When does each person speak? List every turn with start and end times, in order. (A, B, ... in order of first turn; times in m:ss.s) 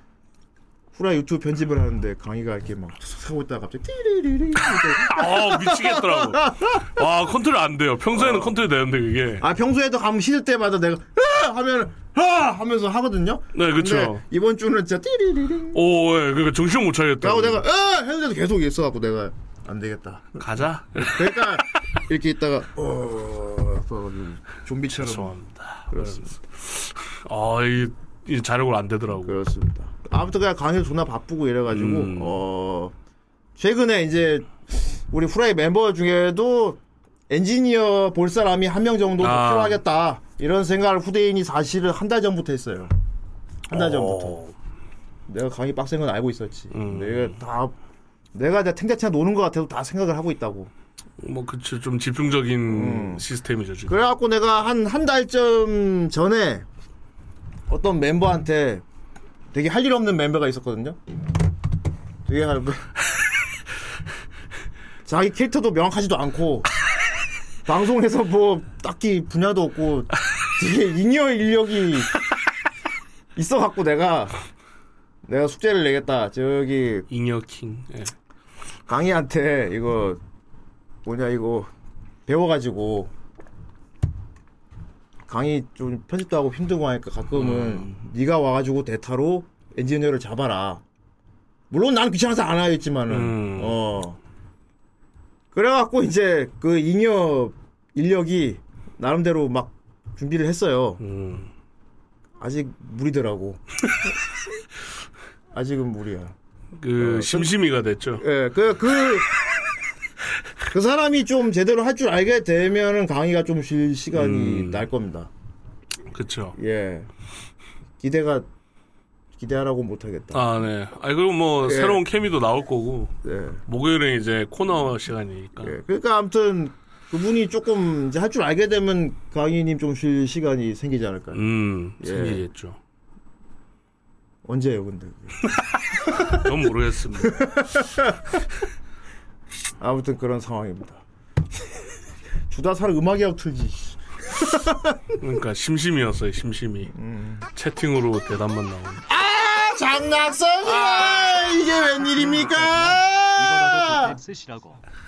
0:00.9-0:06.9 A
0:05.0-0:09.4 B
0:08.1-0:08.5 A
0:09.4-0:15.8 A
0:13.5-0:14.2 B
0:15.7-0:17.6 B
0:17.2-0:25.3 A
0:20.4-0:21.5 B
0:24.9-0:29.4 B
0:25.9-0:26.3 A
0:29.2-0:32.9 A
0:31.7-0:32.4 B
0:33.6-0:42.9 A
0:39.2-0:39.8 B
0:43.7-0:44.5 B
0:43.7-0:44.4 A
0:45.3-0:47.7 A
0:46.7-0:47.4 B
0:48.3-0:50.7 A
0:51.2-0:54.0 B
0:52.7-0:53.2 A
0:53.9-0:56.6 A
0:57.7-0:58.8 A
0:59.5-1:01.0 A
1:02.2-1:02.9 A
1:05.0-1:06.7 A
1:07.6-1:12.1 A
1:13.4-1:14.4 A
1:15.2-1:17.1 A
1:17.1-1:18.1 B
1:18.9-1:20.2 A
1:21.0-1:21.7 A
1:22.2-1:23.1 A
1:25.3-1:30.8 A
1:27.4-1:27.9 B
1:31.7-1:34.2 A
1:33.1-1:33.8 B
1:35.5-1:41.0 A
1:41.0-1:41.5 B
1:42.4-1:44.1 A
1:45.5-1:46.3 A
1:46.8-1:48.2 B
1:47.0-1:47.5 A
1:48.2-1:49.3 A
1:50.7-1:55.3 A
1:54.1-1:54.9 B
1:56.1-1:56.6 B
1:56.6-1:57.1 A
1:58.0-1:58.5 A
1:59.4-2:00.4 A
2:00.3-2:03.1 B
2:01.6-2:02.0 A
2:03.2-2:03.6 A
2:03.7-2:05.7 B
2:05.6-2:11.4 A
2:11.3-2:12.8 B
2:12.0-2:12.4 A
2:14.4-2:15.5 A
2:16.1-2:16.4 A
2:16.1-2:17.4 B
2:17.2-2:18.4 A
2:19.8-2:21.0 A
2:22.5-2:25.2 A
2:25.2-2:26.9 B
2:26.9-2:27.4 A
2:27.5-2:29.0 B
2:29.1-2:34.2 A
2:30.7-2:31.4 B
2:32.1-2:34.8 C